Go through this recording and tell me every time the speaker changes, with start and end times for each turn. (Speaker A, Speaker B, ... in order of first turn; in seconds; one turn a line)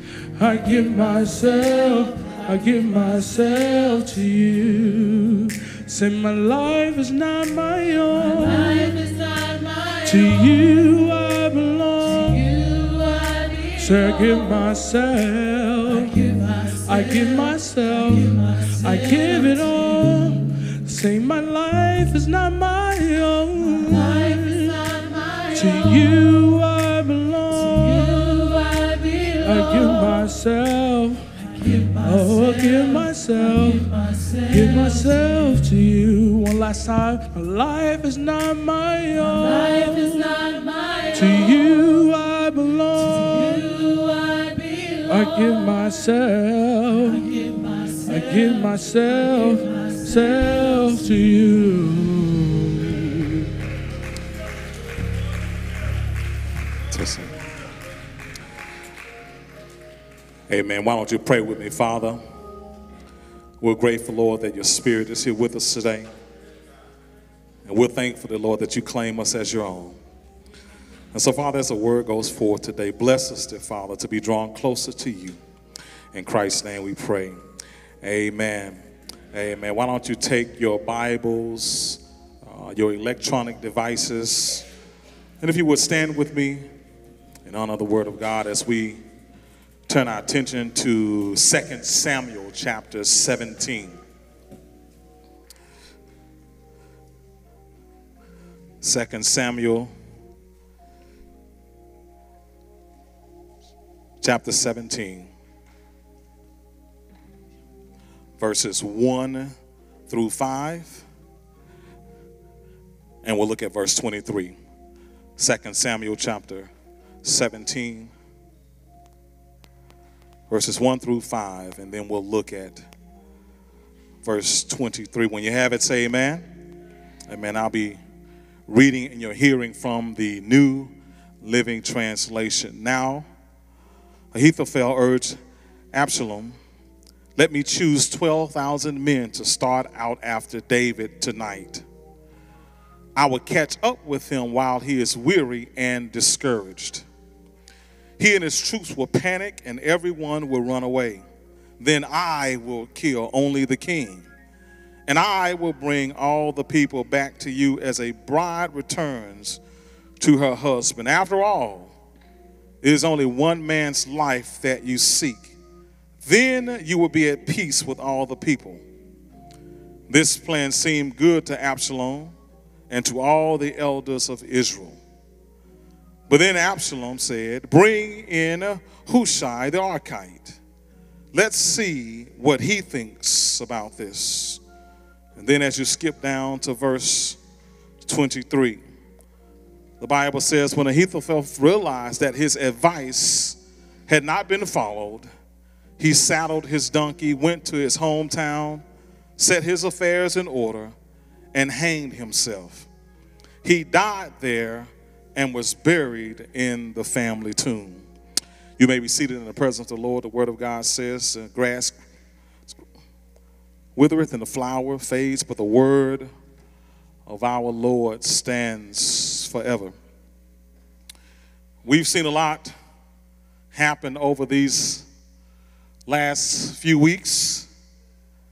Speaker A: 0.4-8.9
Speaker B: 1.7-3.3
Speaker B: 8.2-10.5
Speaker A: 10.0-12.4
Speaker B: 12.0-14.4
Speaker A: 13.8-16.2
Speaker B: 15.9-17.6
Speaker A: 16.8-24.8
Speaker B: 18.1-20.0
Speaker B: 23.8-26.2
Speaker A: 25.5-28.6
Speaker B: 27.5-30.1
Speaker A: 29.4-31.3
Speaker B: 31.5-35.2
Speaker A: 32.0-33.9
Speaker A: 34.5-40.3
Speaker B: 39.2-41.8
Speaker A: 41.1-43.6
Speaker B: 43.0-45.6
Speaker A: 45.1-47.3
Speaker B: 47.1-50.9
Speaker A: 48.0-53.4
Speaker C: 56.9-57.3
Speaker C: 60.5-62.2
Speaker C: 63.6-66.1
Speaker C: 67.7-70.0
Speaker C: 71.1-75.4
Speaker C: 76.1-77.4
Speaker C: 78.0-78.8
Speaker C: 79.3-84.7
Speaker C: 85.4-86.7
Speaker C: 87.5-89.0
Speaker C: 89.9-94.0
Speaker C: 98.8-99.9
Speaker C: 104.2-105.3
Speaker C: 108.4-109.5
Speaker C: 110.1-111.0
Speaker C: 113.2-114.5
Speaker C: 115.4-116.7
Speaker C: 117.2-118.1
Speaker C: 120.5-122.8
Speaker C: 124.2-126.5
Speaker C: 127.3-128.0
Speaker C: 128.7-133.2
Speaker C: 134.3-135.4
Speaker C: 135.9-136.5
Speaker C: 137.3-141.8
Speaker C: 143.2-147.0
Speaker C: 148.2-151.2
Speaker C: 151.8-154.3
Speaker C: 155.1-159.6
Speaker C: 160.2-161.9
Speaker C: 162.8-165.5
Speaker C: 166.2-168.8
Speaker C: 170.1-172.3
Speaker C: 172.9-175.0
Speaker C: 176.3-180.6
Speaker C: 181.3-184.6
Speaker C: 185.4-187.4
Speaker C: 188.0-188.8
Speaker C: 190.0-195.3
Speaker C: 196.0-198.8
Speaker C: 199.4-200.9
Speaker C: 201.5-202.9
Speaker C: 203.6-208.0
Speaker C: 208.8-211.9
Speaker C: 213.9-216.3
Speaker C: 217.2-219.9
Speaker C: 221.8-222.7
Speaker C: 223.7-225.1
Speaker C: 226.1-227.7